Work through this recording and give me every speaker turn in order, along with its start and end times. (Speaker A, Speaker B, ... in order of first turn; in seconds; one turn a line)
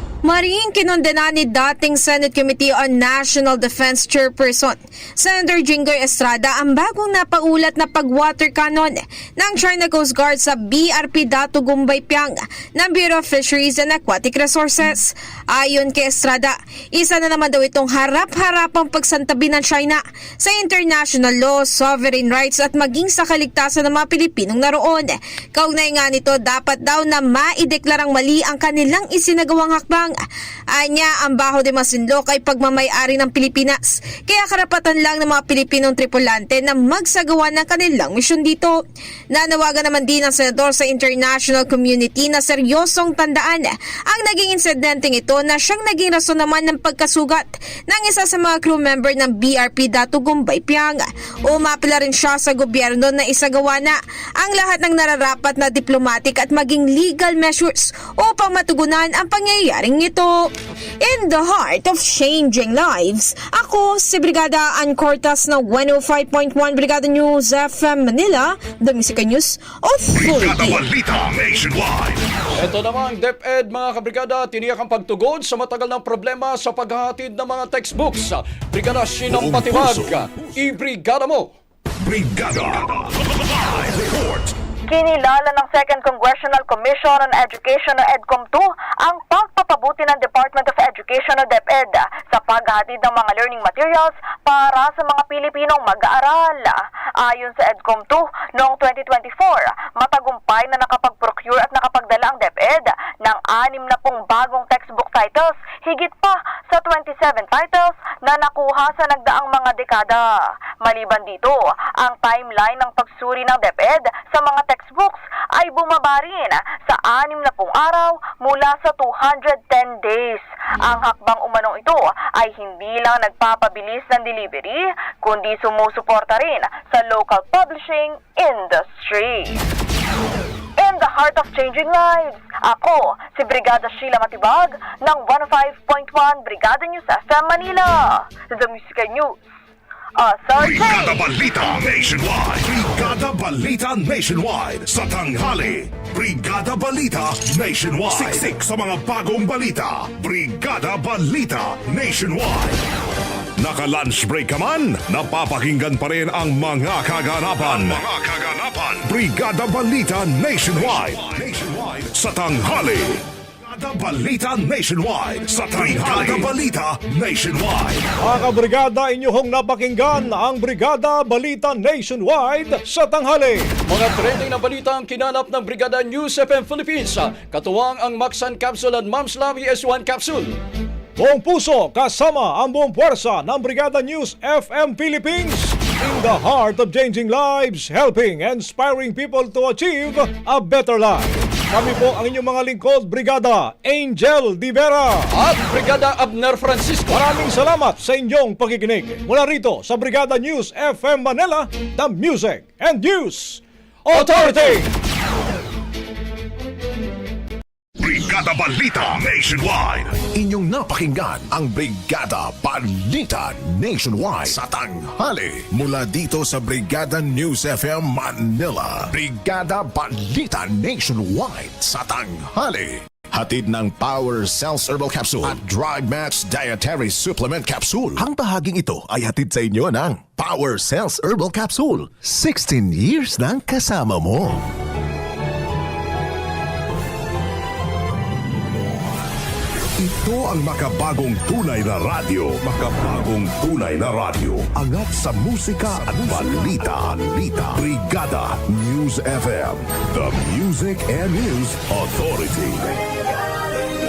Speaker A: 0.2-30.1
Speaker A: 30.7-38.8
Speaker A: 39.3-60.5
Speaker A: 61.0-70.8
Speaker B: 70.2-72.3
Speaker C: 72.5-81.5
Speaker D: 79.3-80.5
Speaker B: 82.0-84.5
Speaker E: 84.9-110.2
Speaker E: 110.8-129.6
Speaker E: 130.8-139.4
Speaker E: 140.2-141.2
Speaker B: 140.6-152.8
Speaker B: 153.6-168.1
Speaker C: 157.7-158.0
Speaker C: 165.8-166.5
Speaker F: 168.2-173.7
Speaker C: 173.9-180.6
Speaker F: 181.2-195.3
Speaker C: 195.3-197.2
Speaker F: 197.1-204.9
Speaker C: 204.1-204.8
Speaker B: 208.0-210.2
Speaker D: 210.3-234.7
Speaker B: 240.0-252.8
Speaker D: 245.8-247.8